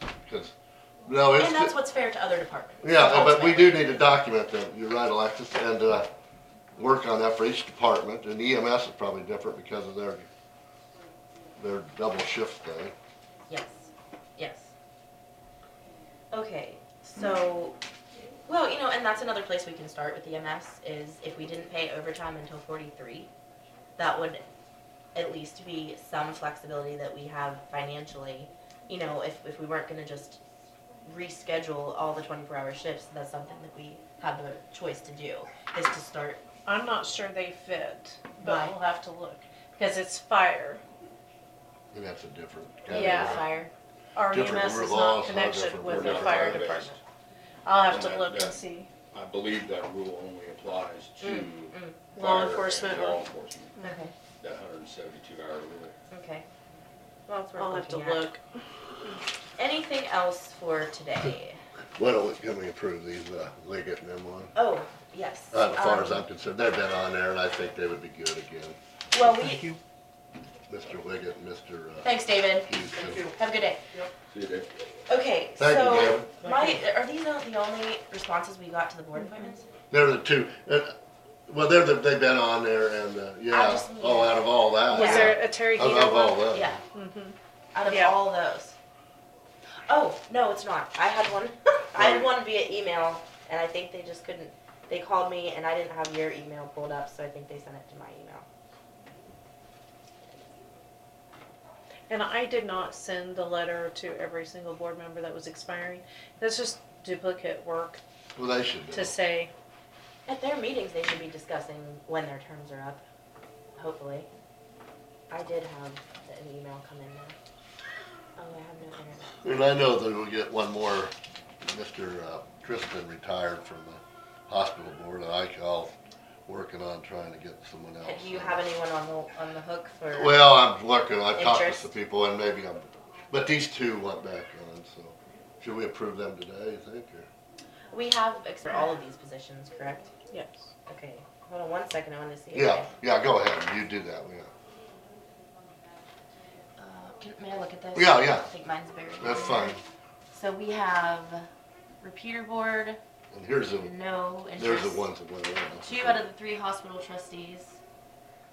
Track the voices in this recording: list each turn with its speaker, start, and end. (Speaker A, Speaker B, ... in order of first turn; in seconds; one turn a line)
Speaker A: 0.3-0.5
Speaker A: 1.1-1.7
Speaker B: 1.3-4.0
Speaker A: 2.8-6.1
Speaker A: 6.8-10.3
Speaker A: 11.6-12.9
Speaker B: 13.5-14.7
Speaker B: 16.3-17.8
Speaker B: 18.5-23.3
Speaker B: 24.0-24.4
Speaker B: 25.1-30.4
Speaker B: 31.1-36.4
Speaker C: 36.7-40.8
Speaker B: 38.4-38.8
Speaker A: 41.9-43.4
Speaker B: 42.9-43.7
Speaker C: 42.9-43.4
Speaker C: 44.2-47.0
Speaker A: 44.3-46.7
Speaker D: 45.8-47.0
Speaker C: 47.6-48.9
Speaker D: 47.9-48.6
Speaker D: 49.1-53.8
Speaker B: 51.2-52.0
Speaker C: 52.1-53.2
Speaker C: 53.8-54.0
Speaker B: 53.8-54.1
Speaker D: 54.4-56.0
Speaker B: 56.1-56.5
Speaker B: 57.3-58.3
Speaker C: 57.5-58.4
Speaker B: 59.6-61.6
Speaker A: 62.0-64.5
Speaker B: 64.5-66.2
Speaker A: 65.5-68.8
Speaker B: 69.1-69.7
Speaker A: 70.7-72.1
Speaker B: 72.0-73.8
Speaker A: 72.7-73.3
Speaker D: 74.3-74.7
Speaker B: 75.1-79.7
Speaker A: 75.6-76.3
Speaker C: 79.2-79.5
Speaker A: 79.9-81.0
Speaker A: 81.5-86.8
Speaker B: 83.5-85.3
Speaker C: 84.9-87.4
Speaker B: 86.5-86.8
Speaker B: 87.8-88.8
Speaker C: 87.9-88.2
Speaker B: 89.9-98.5
Speaker A: 92.0-92.3
Speaker C: 102.1-108.0
Speaker A: 108.4-109.2
Speaker C: 108.9-109.5
Speaker B: 110.3-113.0
Speaker B: 113.8-114.3
Speaker B: 115.3-117.4
Speaker B: 118.4-119.4
Speaker A: 119.4-121.1
Speaker A: 121.7-126.0
Speaker A: 126.5-128.6
Speaker B: 128.0-130.4
Speaker A: 130.1-137.3
Speaker B: 131.3-131.9
Speaker B: 137.9-140.1
Speaker C: 140.3-140.7
Speaker B: 140.9-142.9
Speaker A: 142.5-144.5
Speaker B: 146.8-149.8
Speaker A: 147.9-148.5
Speaker A: 149.2-149.8
Speaker B: 150.3-151.5
Speaker B: 152.0-153.0
Speaker A: 153.3-153.9
Speaker B: 153.8-155.1
Speaker A: 154.6-156.2
Speaker B: 155.8-157.8